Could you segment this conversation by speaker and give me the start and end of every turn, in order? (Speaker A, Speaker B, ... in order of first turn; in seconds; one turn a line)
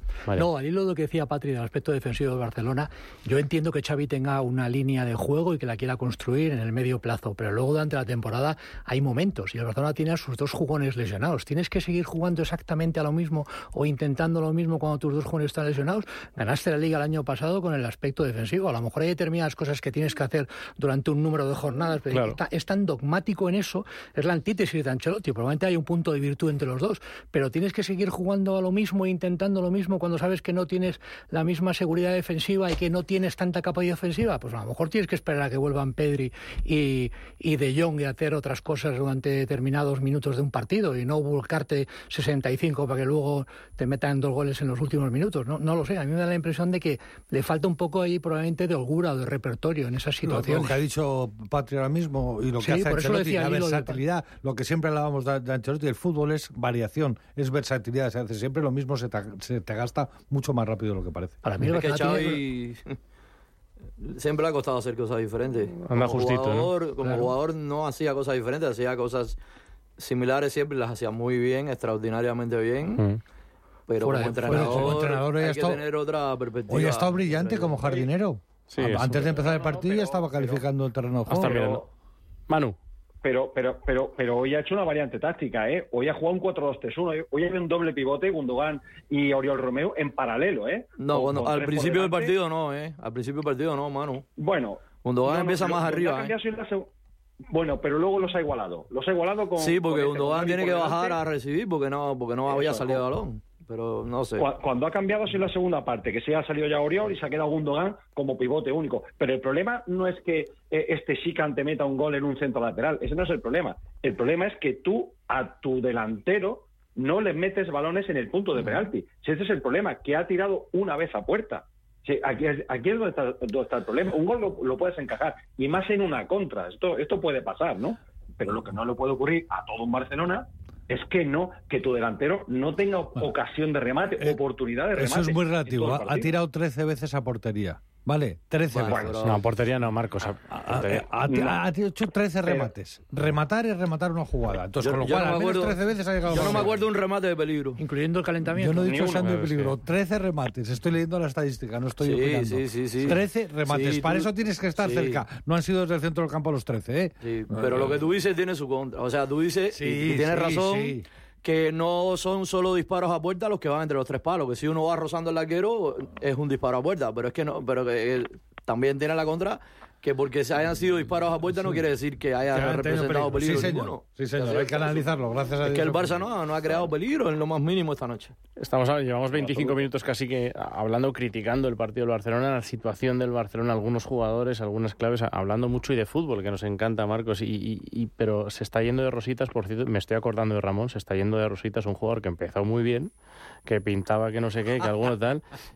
Speaker A: 0.3-50.8
Speaker B: 22.1-22.4
Speaker C: 50.2-61.4
Speaker A: 52.6-54.0
Speaker A: 61.4-62.4
Speaker D: 61.6-63.0
Speaker D: 64.0-69.4
Speaker B: 65.9-66.7
Speaker A: 67.0-67.3
Speaker D: 70.0-73.0
Speaker D: 73.9-78.1
Speaker A: 74.0-75.0
Speaker C: 74.5-75.8
Speaker C: 76.7-81.6
Speaker B: 78.7-79.7
Speaker B: 81.3-81.8
Speaker E: 81.4-81.8
Speaker B: 82.5-82.8
Speaker E: 83.2-92.3
Speaker D: 91.0-94.3
Speaker E: 94.4-96.9
Speaker D: 95.0-96.3
Speaker E: 97.5-101.2
Speaker D: 99.6-104.5
Speaker E: 102.5-103.0
Speaker E: 104.4-136.3
Speaker C: 134.9-139.2
Speaker D: 138.7-139.4
Speaker B: 139.2-141.1
Speaker C: 140.5-146.7
Speaker E: 141.3-141.6
Speaker D: 144.8-145.8
Speaker D: 146.3-147.8
Speaker A: 147.8-149.0
Speaker C: 148.5-158.0
Speaker E: 148.8-149.4
Speaker B: 149.3-149.7
Speaker D: 152.0-155.2
Speaker D: 157.2-175.0
Speaker C: 159.7-161.1
Speaker C: 172.5-176.3
Speaker D: 175.6-178.3
Speaker B: 178.6-193.1
Speaker B: 193.7-195.5